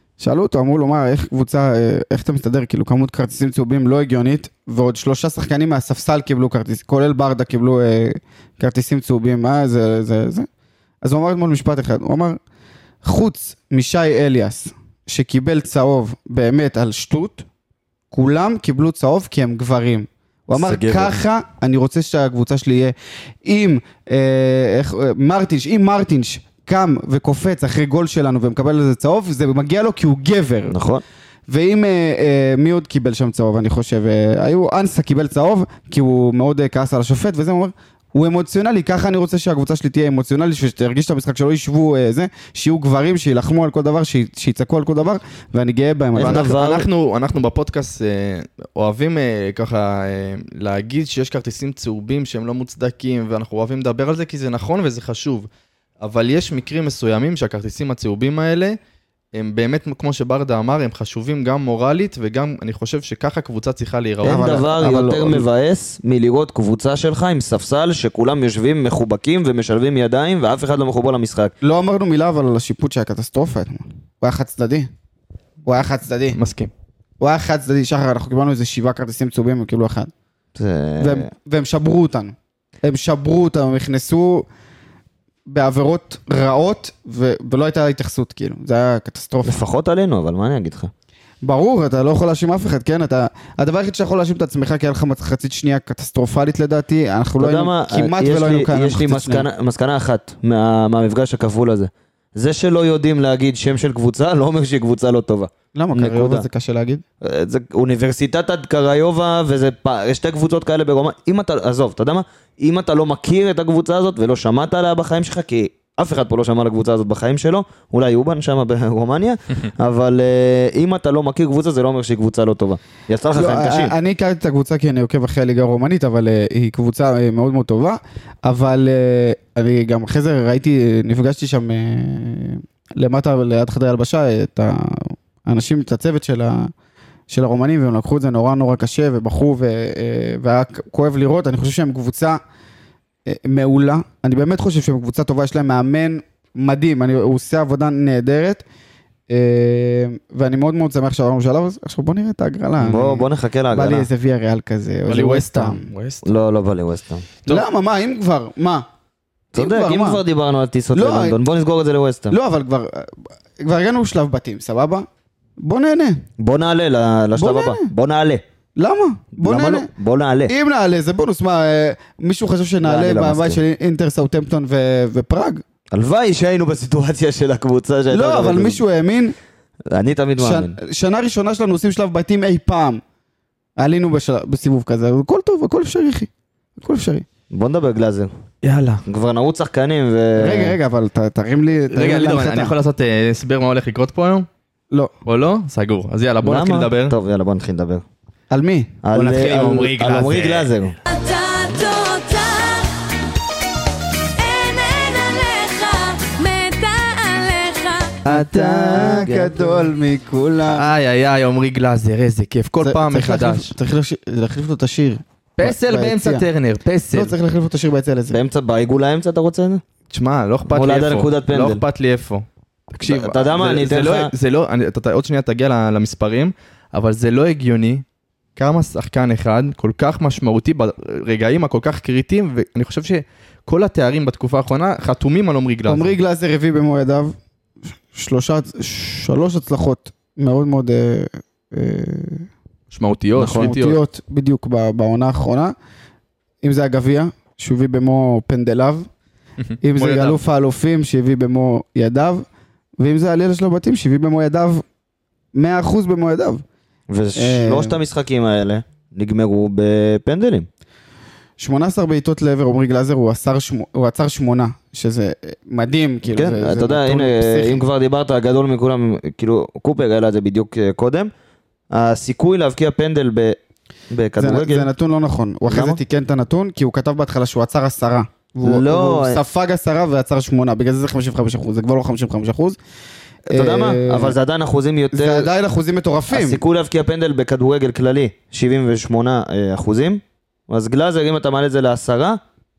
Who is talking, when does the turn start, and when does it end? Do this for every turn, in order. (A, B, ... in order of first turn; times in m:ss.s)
0:00.2-0:10.5 A
0:11.0-0:12.4 A
0:13.0-0:17.4 A
0:18.1-0:30.8 A
0:20.5-0:21.1 B
0:30.7-0:31.0 B
0:31.5-0:46.5 A
0:46.1-0:55.5 C
0:46.2-0:46.9 B
0:56.0-0:58.8 C
0:59.3-1:04.6 C
1:04.2-1:05.5 A
1:04.2-1:11.5 B
1:11.6-1:14.9 A
1:15.6-1:16.4 A
1:16.3-1:16.7 C
1:17.2-1:20.1 A
1:20.6-1:21.3 B
1:21.0-1:24.5 A
1:25.4-1:29.6 A
1:29.4-1:30.9 B
1:31.4-1:39.5 A
1:37.4-1:46.4 B
1:45.7-1:47.0 A
1:47.2-2:03.9 B
2:03.3-2:16.7 A
2:17.3-2:22.4 A
2:23.2-2:28.6 A
2:29.3-2:35.9 A
2:32.8-2:34.1 B
2:35.1-2:36.2 C
2:36.2-2:37.3 B
2:37.4-2:38.9 A
2:39.5-2:40.2 A
2:39.5-2:42.4 B
2:40.9-2:41.4 A
2:42.3-2:45.1 A
2:45.6-2:46.2 A
2:46.4-2:48.4 B
2:47.4-2:47.9 A
2:48.8-2:49.9 A
2:49.4-2:50.5 B
2:50.4-2:55.6 A
2:52.8-2:53.6 B
2:55.9-2:58.8 B
2:58.1-2:59.4 A
2:59.9-3:00.8 B
3:00.4-3:03.0 A
3:03.8-3:07.2 A
3:07.5-3:08.3 B
3:08.6-3:09.0 C
3:09.0-3:10.8 B
3:10.3-3:12.7 A
3:11.9-3:14.5 C
3:15.2-3:17.1 C
3:16.4-3:18.0 B
3:18.5-3:19.0 A
3:19.0-3:21.0 B
3:19.1-3:20.7 C
3:21.1-3:22.9 D
3:24.4-3:28.1 D
3:28.2-3:29.1 C
3:28.2-3:30.9 A
3:28.8-3:29.7 B
3:30.7-3:33.7 C
3:32.8-3:36.5 A
3:35.6-3:37.3 C
3:37.1-3:38.4 A
3:38.3-3:39.8 B
3:40.1-3:48.0 C
3:40.7-3:41.8 B
3:43.0-3:44.3 B
3:48.6-3:56.1 C
3:55.9-3:57.4 A
3:58.1-4:02.5 A
4:02.9-4:04.0 C
4:03.4-4:05.7 A
4:06.6-4:09.1 A
4:09.6-4:10.4 C
4:09.8-4:12.4 A
4:13.0-4:14.8 A
4:15.5-4:16.6 A
4:17.1-4:20.7 B
4:17.3-4:18.0 A
4:21.6-4:27.8 A
4:26.3-4:31.3 B
4:31.9-4:33.6 B
4:34.1-4:34.9 B
4:34.4-4:42.8 A
4:35.7-4:36.0 B
4:38.6-4:39.4 B
4:43.5-4:45.5 B
4:43.5-4:44.4 A
4:45.1-4:46.6 A
4:46.3-4:52.4 B